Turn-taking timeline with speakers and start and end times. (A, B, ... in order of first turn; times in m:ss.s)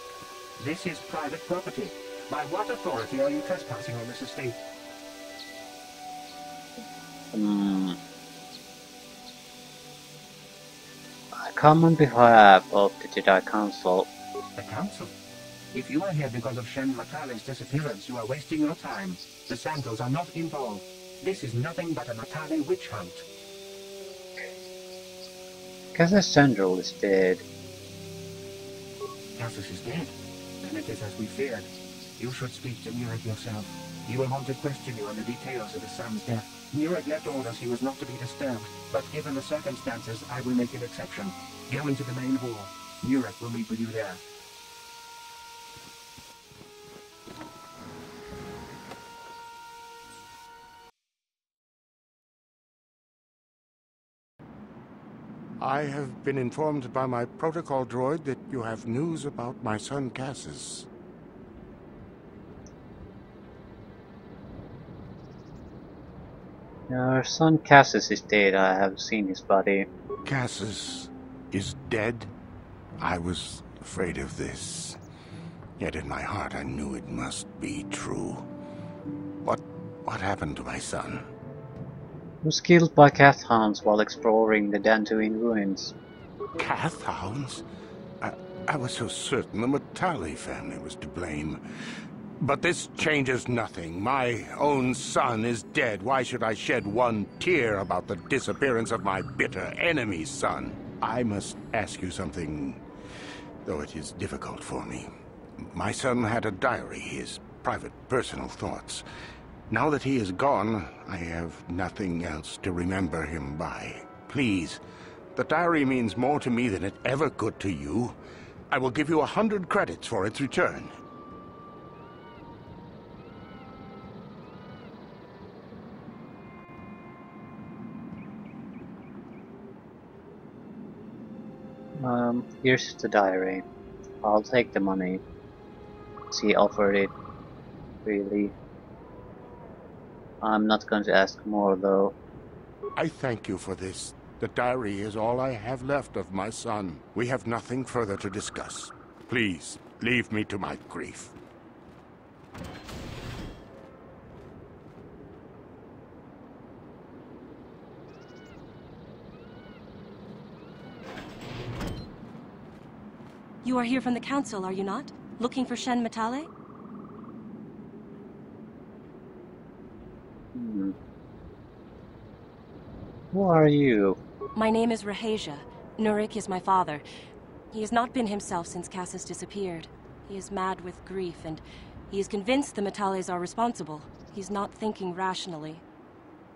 0:00.6-0:04.6 A
0:07.3-0:08.0 B
0:11.4-0:14.1 B
0:14.6-0:15.1 A
0:15.7-0:23.2 A
0:25.9-0:27.4 B
0:29.4-0:30.1 A
0:30.6-0:44.2 A
0:55.6-1:00.9 C
1:06.9-1:09.9 B
1:10.2-1:12.3 C
1:13.0-1:15.0 C
1:15.8-1:18.5 C
1:19.4-1:21.2 C
1:22.4-1:26.0 B
1:26.6-1:27.6 C
1:28.2-1:31.6 C
1:32.4-1:42.8 C
1:43.6-1:49.0 C
1:49.7-1:54.8 C
1:55.4-1:58.2 C
1:58.7-2:00.9 C
2:12.0-2:13.6 B
2:14.2-2:15.2 B
2:16.3-2:17.1 B
2:18.0-2:18.6 B
2:20.4-2:22.2 B
2:23.0-2:31.3 C
2:43.6-2:46.5 D
2:50.6-2:51.0 B
2:53.3-2:54.2 B
2:54.6-2:57.0 D
2:57.7-3:05.8 D